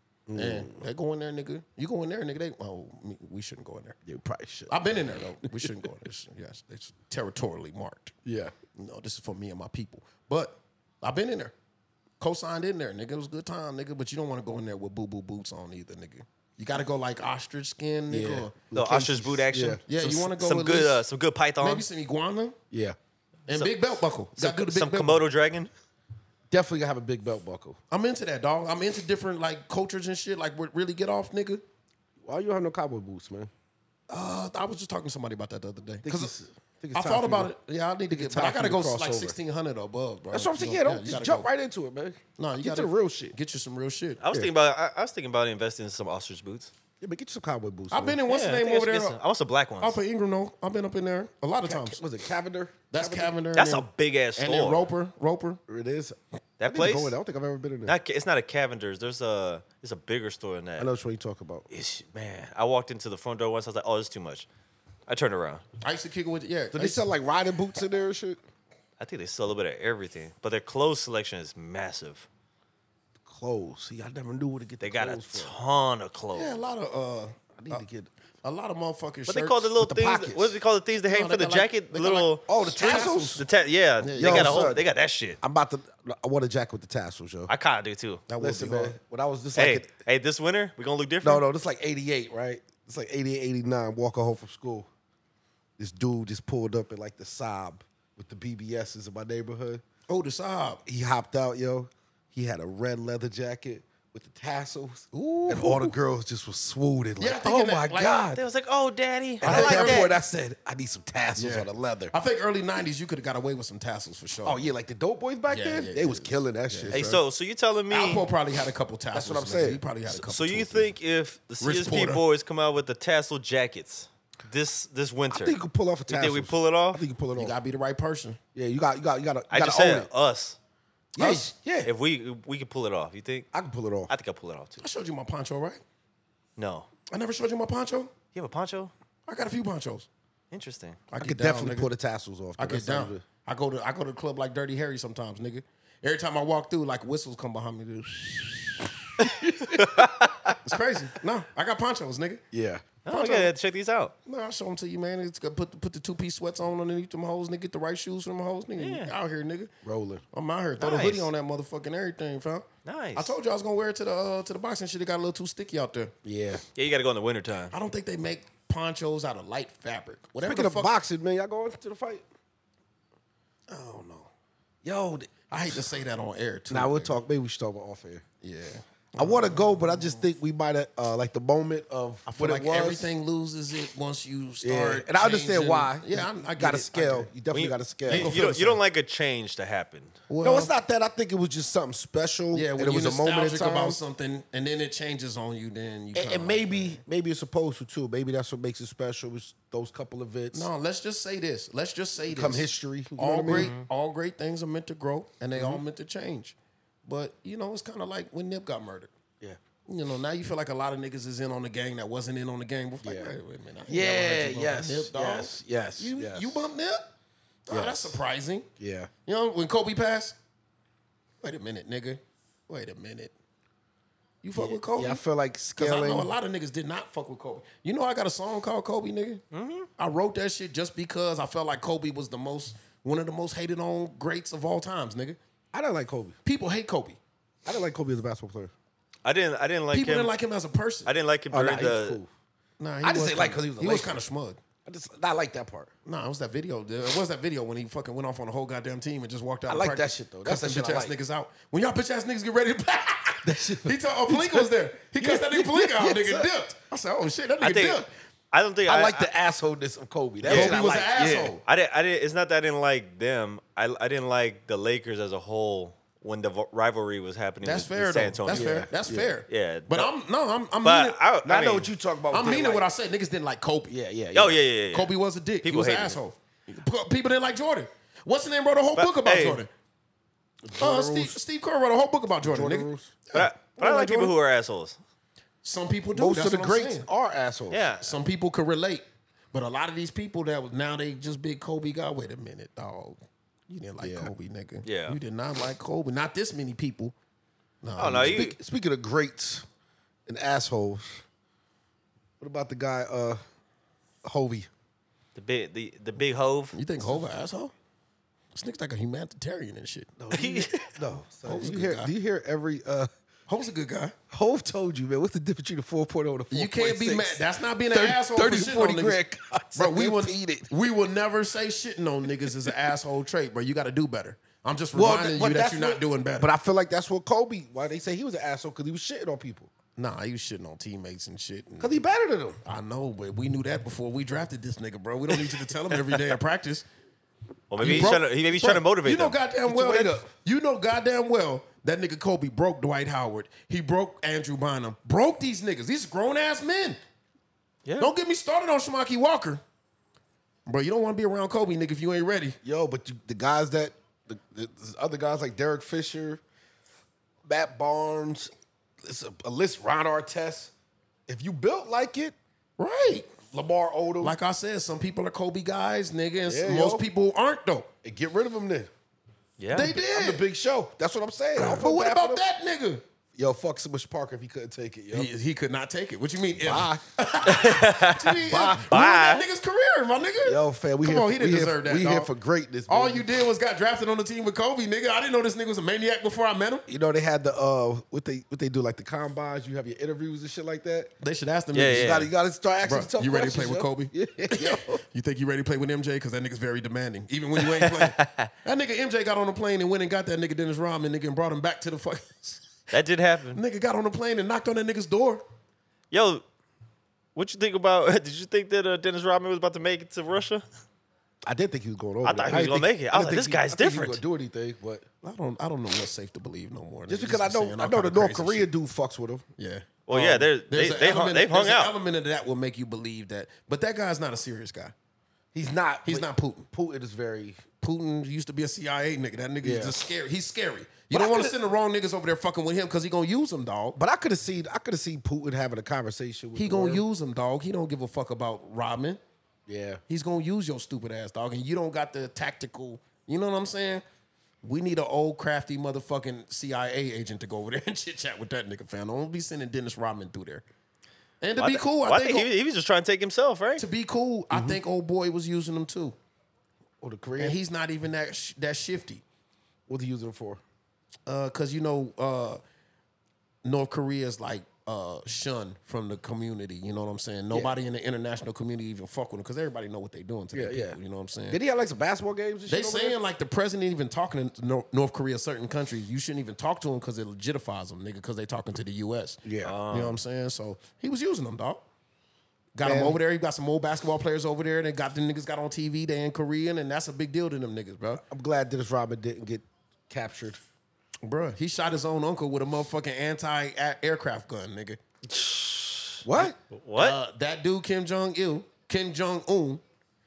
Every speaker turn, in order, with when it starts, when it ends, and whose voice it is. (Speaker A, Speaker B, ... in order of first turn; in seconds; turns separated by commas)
Speaker A: 0.3-0.8, Speaker B: 0.3-4.0, Speaker A: 4.1-5.8, Speaker B: 4.7-8.2, Speaker A: 8.3-8.5, Speaker B: 8.8-11.5, Speaker B: 12.2-18.5, Speaker A: 18.1-19.8, Speaker C: 18.7-21.9, Speaker B: 19.9-21.0, Speaker B: 21.6-22.6, Speaker A: 22.7-23.0, Speaker B: 23.5-25.2, Speaker C: 23.5-23.8, Speaker C: 24.4-25.7, Speaker A: 26.5-27.8, Speaker B: 27.9-31.6, Speaker A: 32.2-33.5, Speaker B: 34.1-36.3, Speaker A: 36.0-37.5, Speaker B: 36.9-41.5, Speaker A: 38.1-39.4, Speaker A: 40.3-43.4, Speaker B: 42.4-44.2, Speaker C: 44.2-46.7, Speaker A: 47.0-48.2, Speaker B: 47.9-49.2, Speaker C: 48.3-50.0, Speaker B: 49.8-52.0, Speaker A: 51.6-53.3, Speaker B: 52.9-55.6, Speaker C: 53.5-54.9, Speaker A: 55.7-58.0, Speaker C: 56.6-57.1, Speaker C: 57.9-60.9, Speaker A: 60.8-61.6, Speaker C: 61.7-64.5, Speaker C: 65.1-65.6, Speaker B: 65.8-67.1, Speaker A: 66.7-68.4, Speaker C: 69.0-72.3, Speaker A: 73.3-75.5, Speaker C: 74.8-76.6, Speaker B: 76.3-77.8, Speaker A: 77.6-78.1, Speaker B: 78.4-79.7, Speaker C: 79.3-85.4, Speaker A: 79.8-80.6, Speaker B: 81.1-83.5, Speaker A: 82.5-83.5, Speaker B: 84.0-84.7, Speaker A: 84.2-84.8, Speaker A: 85.4-87.5, Speaker C: 87.5-88.2, Speaker B: 88.3-89.0, Speaker A: 88.4-89.9, Speaker C: 89.5-91.5, Speaker A: 91.2-94.9, Speaker A: 95.8-99.8, Speaker B: 100.1-100.8, Speaker A: 100.9-108.4, Speaker B: 105.1-106.0, Speaker B: 107.2-108.3, Speaker C: 108.3-110.1, Speaker B: 109.4-110.1, Speaker A: 109.4-112.1, Speaker B: 111.4-114.7, Speaker A: 114.4-117.2, Speaker B: 115.5-117.0, Speaker C: 116.9-118.2, Speaker B: 117.9-120.9, Speaker A: 119.1-119.8, Speaker C: 120.1-127.0, Speaker B: 121.6-122.2, Speaker A: 125.3-127.5, Speaker B: 127.4-128.4, Speaker A: 128.6-130.1, Speaker C: 129.5-130.6, Speaker A: 131.2-131.9, Speaker B: 131.2-131.5, Speaker C: 131.8-133.5, Speaker A: 133.5-134.1, Speaker C: 134.1-134.8, Speaker B: 134.8-135.8, Speaker C: 136.6-136.9, Speaker B: 137.1-138.1, Speaker C: 138.3-138.9, Speaker B: 139.3-140.1, Speaker C: 140.5-141.0, Speaker B: 141.1-141.9, Speaker A: 141.2-143.2, Speaker B: 142.6-149.3, Speaker A: 149.5-149.8, Speaker C: 149.6-150.6, Speaker B: 150.6-152.4, Speaker A: 152.5-152.8, Speaker C: 153.1-154.1, Speaker B: 153.1-153.5, Speaker B: 154.3-159.7, Speaker C: 158.8-159.1, Speaker A: 159.8-160.2, Speaker B: 160.3-166.1, Speaker C: 160.8-161.3, Speaker C: 162.8-163.4, Speaker A: 166.2-166.6, Speaker C: 166.8-167.7, Speaker B: 167.7-170.9, Speaker A: 170.4-172.2, Speaker B: 173.7-174.3, Speaker A: 174.8-175.4, Speaker B: 175.5-177.2, Speaker A: 176.7-178.2, Speaker B: 178.4-180.2, Speaker A: 179.2-183.1, Speaker B: 182.3-187.3, Speaker A: 184.6-188.4, Speaker C: 187.5-190.2, Speaker B: 188.1-188.8, Speaker B: 190.3-190.7, Speaker A: 190.4-194.0, Speaker B: 192.5-197.0, Speaker A: 196.1-200.7, Speaker B: 200.5-209.1, Speaker A: 202.3-203.7, Speaker C: 203.5-203.9, Speaker A: 205.6-205.8, Speaker B: 209.9-217.1, Speaker A: 213.0-213.3, Speaker A: 213.9-216.7, Speaker B: 217.7-218.7, Speaker A: 217.7-218.2, Speaker A: 218.8-219.1, Speaker B: 219.3-220.4, Speaker B: 221.4-223.3, Speaker B: 224.4-225.2, Speaker A: 224.6-226.3, Speaker B: 225.8-229.4, Speaker C: 229.5-229.9, Speaker B: 230.0-235.4, Speaker A: 235.7-236.4, Speaker B: 236.4-237.2, Speaker A: 237.7-238.7, Speaker C: 239.2-240.3, Speaker B: 239.9-241.1, Speaker C: 241.1-242.2, Speaker A: 241.5-242.3, Speaker B: 242.8-244.6, Speaker A: 243.0-244.2, Speaker A: 244.8-245.9, Speaker B: 246.1-258.1, Speaker A: 249.7-251.1, Speaker A: 253.4-256.5, Speaker C: 257.6-259.3, Speaker A: 258.9-261.6, Speaker C: 260.4-260.9, Speaker B: 260.5-261.6, Speaker C: 261.6-268.7, Speaker B: 267.6-271.2, Speaker A: 268.5-269.3, Speaker C: 269.5-270.1, Speaker C: 270.8-271.9, Speaker A: 271.4-272.9, Speaker B: 272.3-273.9, Speaker A: 273.9-274.6, Speaker C: 274.3-276.2, Speaker B: 274.9-279.7, Speaker C: 279.0-279.6, Speaker A: 280.6-281.4, Speaker B: 280.8-284.4, Speaker A: 282.4-283.1, Speaker C: 283.3-285.0, Speaker B: 285.6-287.1, Speaker A: 286.1-287.9, Speaker C: 287.7-288.1, Speaker B: 288.0-297.1, Speaker A: 294.0-294.3, Speaker C: 294.9-295.2, Speaker B: 297.8-298.6, Speaker C: 298.0-298.6, Speaker A: 298.3-299.6, Speaker A: 300.3-301.2, Speaker A: 302.4-303.4, Speaker A: 304.2-304.7, Speaker C: 305.4-306.8, Speaker B: 306.7-307.7, Speaker B: 308.5-310.1, Speaker A: 310.2-313.1, Speaker C: 310.3-310.9, Speaker B: 311.4-312.1, Speaker B: 313.5-314.1, Speaker A: 314.3-320.7, Speaker B: 316.5-319.2, Speaker B: 319.8-326.5, Speaker A: 324.9-329.7, Speaker B: 330.0-332.0, Speaker A: 331.8-332.6, Speaker B: 332.6-336.9, Speaker C: 337.7-339.4, Speaker B: 337.8-347.0, Speaker A: 339.7-340.3, Speaker C: 347.9-348.1, Speaker B: 348.0-349.6, Speaker B: 350.7-352.6, Speaker A: 352.6-356.4, Speaker A: 357.5-358.5, Speaker A: 359.0-360.7, Speaker A: 361.3-362.4, Speaker B: 362.8-363.3, Speaker A: 363.5-364.4, Speaker B: 364.2-367.9, Speaker A: 366.5-367.1, Speaker A: 368.0-368.9, Speaker C: 369.6-369.9, Speaker B: 369.7-370.4, Speaker A: 369.8-372.4, Speaker B: 371.6-373.0, Speaker A: 373.4-375.3, Speaker B: 375.1-382.3, Speaker A: 376.6-377.0, Speaker C: 377.4-378.4, Speaker A: 378.4-378.9, Speaker C: 378.9-379.4, Speaker A: 380.4-383.3, Speaker B: 382.9-386.9, Speaker A: 386.9-391.1, Speaker B: 391.2-392.2, Speaker C: 391.7-392.3, Speaker A: 391.9-395.0, Speaker B: 392.8-402.6, Speaker C: 397.6-398.5, Speaker C: 402.9-403.6, Speaker B: 403.5-405.4, Speaker C: 406.1-406.4, Speaker C: 407.4-410.6, Speaker A: 411.5-415.1, Speaker C: 412.2-414.2, Speaker B: 415.2-418.7, Speaker A: 417.1-419.4, Speaker B: 419.6-424.9, Speaker C: 420.1-421.9, Speaker A: 425.5-427.6, Speaker B: 426.1-426.7, Speaker B: 427.8-434.0, Speaker A: 429.6-430.0, Speaker A: 431.1-431.6, Speaker A: 433.9-437.0, Speaker B: 436.6-439.2, Speaker A: 439.7-440.0, Speaker B: 440.1-444.0, Speaker B: 444.6-450.6, Speaker B: 451.4-452.5, Speaker C: 451.6-453.9, Speaker B: 453.8-456.2, Speaker A: 454.5-454.8, Speaker A: 457.0-457.6, Speaker B: 457.4-459.2, Speaker A: 459.9-460.6, Speaker B: 461.3-462.6, Speaker B: 463.6-471.6, Speaker A: 470.5-471.0, Speaker A: 471.5-473.2, Speaker B: 472.7-481.8, Speaker A: 479.4-479.8, Speaker C: 479.6-480.2, Speaker B: 482.8-488.2, Speaker A: 482.8-483.2, Speaker A: 488.3-490.6, Speaker B: 491.2-495.0, Speaker C: 495.3-497.2, Speaker A: 496.2-496.6, Speaker B: 496.4-499.8